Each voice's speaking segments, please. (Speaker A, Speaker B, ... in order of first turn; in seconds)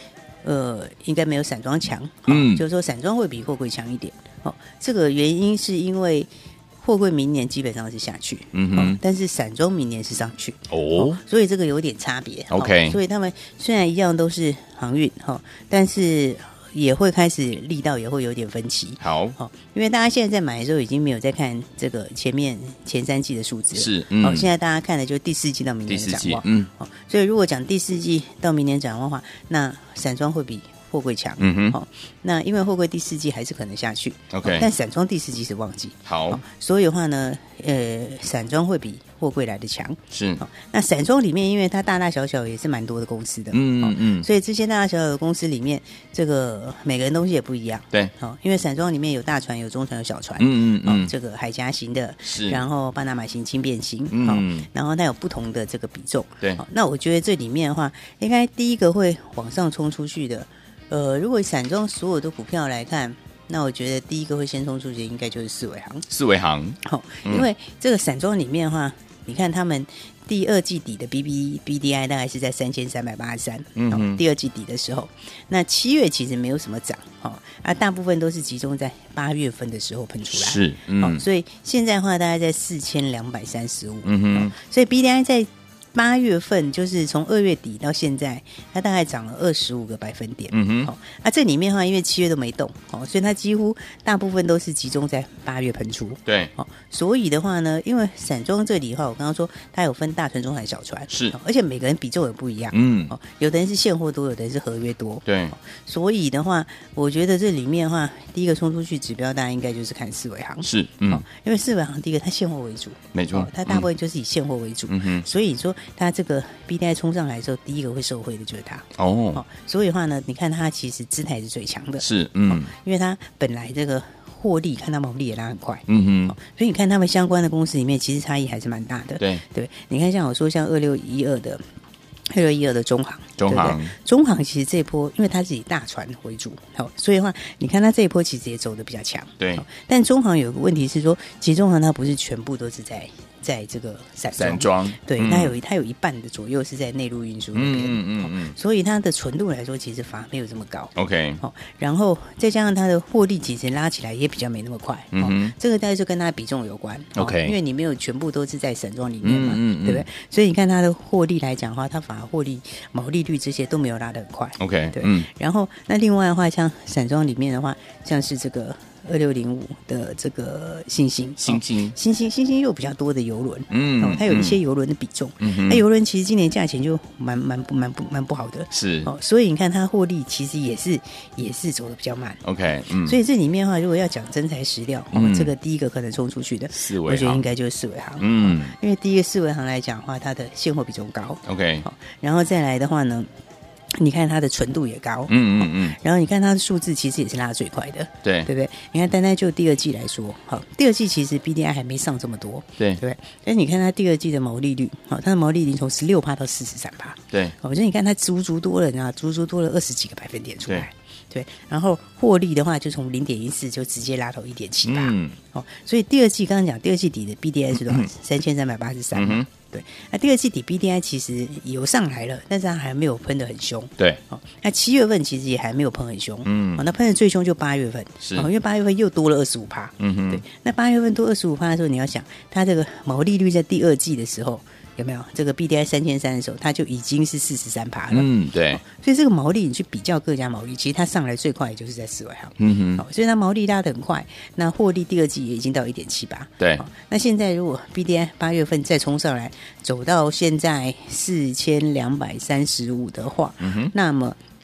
Speaker A: 0.4-66.0, 66.8-131.6, 132.3-182.4, 183.0-193.3, 193.9-254.4
Speaker B: 2.3-2.6, 8.5-9.0, 10.7-11.2, 12.5-13.0, 19.0-19.4, 23.7-24.5, 25.9-26.7, 31.4-31.8, 34.3-34.7, 36.0-36.4, 40.1-40.4, 43.5-44.3, 50.4-51.1, 52.2-52.6, 54.1-54.7, 66.1-67.5, 73.8-74.2, 80.3-81.2, 84.0-84.5, 90.5-90.9, 96.3-96.5, 101.1-101.3, 102.7-103.1, 105.2-105.5, 110.6-111.2, 113.1-113.9, 114.9-115.2, 119.0-119.4, 122.0-122.7, 125.9-126.3, 133.4-133.9, 139.4-139.6, 144.3-145.6, 147.5-148.5, 150.9-151.4, 155.1-155.5, 157.2-157.6, 159.2-160.1, 164.6-165.3, 171.4-171.9, 173.7-174.6, 175.4-175.8, 178.7-179.1, 182.4-183.2, 185.1-185.5, 186.7-187.4, 188.2-188.7, 191.4-191.8, 195.3-196.0, 198.2-198.5, 214.8-215.3, 217.7-218.1, 219.1-219.5, 226.4-226.8, 228.2-228.5, 230.0-230.4, 238.1-238.8, 242.6-243.0, 246.6-246.8, 253.6-253.9